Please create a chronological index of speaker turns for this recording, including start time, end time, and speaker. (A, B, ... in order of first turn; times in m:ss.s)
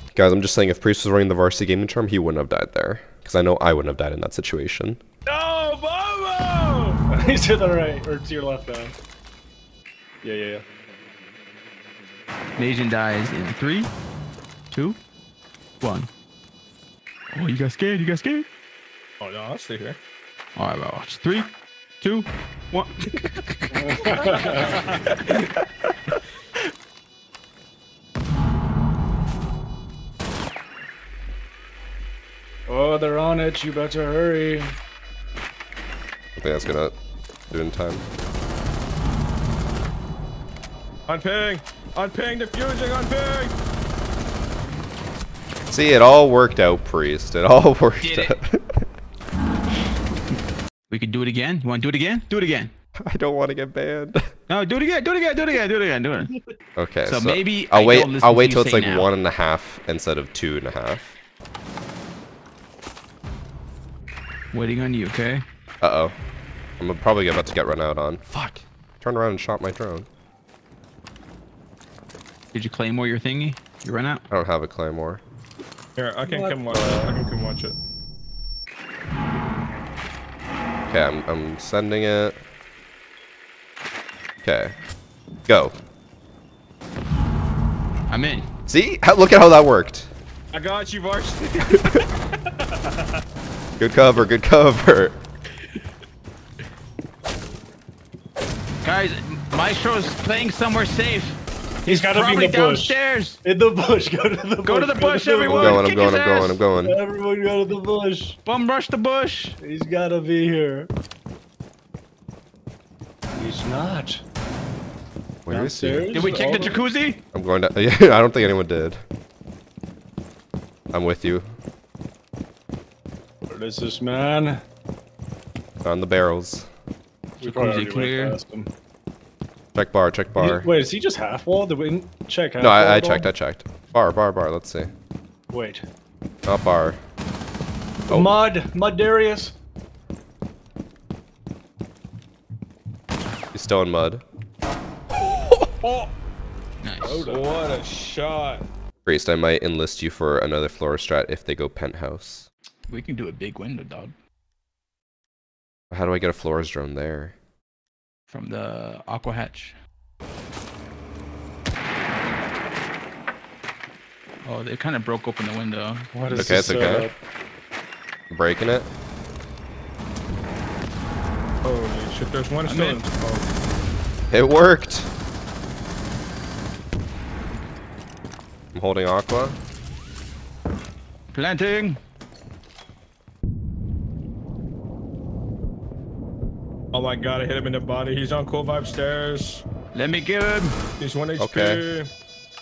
0:00.1-0:05.0 A
0:05.3-0:07.0 B
0:07.1-0:08.9 C
0:10.2-0:10.6 C
0:12.6-0:13.9 D
0:14.7-0:15.0 D
0:15.8-0:16.1 D
0:17.3-0:18.5 D
0:19.2-0:20.0 B
0:20.6-0:26.1 D
0:23.7-0:25.0 C
0:32.7-0:34.8 C
0:36.4-0:36.9 A
0:37.5-0:38.0 A
0:41.1-0:43.6 B
0:45.7-0:48.8 A
0:48.0-0:48.4 D
0:50.9-0:52.7 D
0:53.0-0:54.3 A
0:54.5-0:56.3 D
0:56.8-1:01.2 A
0:57.0-0:59.1 D
1:04.5-1:05.4 D
1:05.8-1:06.2 A
1:06.8-1:10.1 A
1:12.5-1:14.2 D
1:14.3-1:15.2 A
1:16.0-1:17.8 B
1:16.2-1:17.2 C
1:20.9-1:22.4 A
1:24.4-1:24.8 A
1:25.4-1:25.7 A
1:28.1-1:28.5 D
1:28.6-1:30.1 A
1:30.5-1:32.8 B
1:33.8-1:35.2 A
1:38.8-1:43.4 D
1:41.9-1:45.8 C
1:44.6-1:46.6 D
1:45.5-1:47.0 A
1:46.8-1:48.4 C
1:48.4-1:49.6 D
1:49.6-1:50.9 C
1:53.4-1:54.2 C
1:55.4-1:56.1 A
1:55.5-1:56.8 C
1:56.1-1:57.2 D
1:57.3-1:59.0 A
2:00.9-2:01.5 A
2:03.5-2:04.6 C
2:05.8-2:06.7 A
2:07.4-2:08.4 D
2:07.4-2:08.7 C
2:09.7-2:10.7 A
2:10.4-2:13.3 C
2:12.6-2:14.9 A
2:15.5-2:15.8 C
2:16.4-2:17.0 A
2:18.1-2:19.5 C
2:18.1-2:18.4 A
2:23.5-2:24.2 A
2:25.2-2:26.1 B
2:26.8-2:27.2 D
2:27.0-2:27.5 C
2:27.2-2:28.7 B
2:29.0-2:32.5 A
2:32.9-2:34.1 D
2:35.9-2:37.4 A
2:38.3-2:39.8 D
2:44.4-2:46.1 D
2:46.1-2:47.1 C
2:46.3-2:47.1 A
2:48.3-2:48.9 A
2:51.6-2:53.5 B
2:52.6-2:53.0 D
2:54.3-2:55.1 A
2:58.7-2:59.6 A
3:01.3-3:02.0 D
3:06.9-3:09.6 B
3:09.9-3:10.8 D
3:11.0-3:12.1 B
3:11.4-3:11.8 A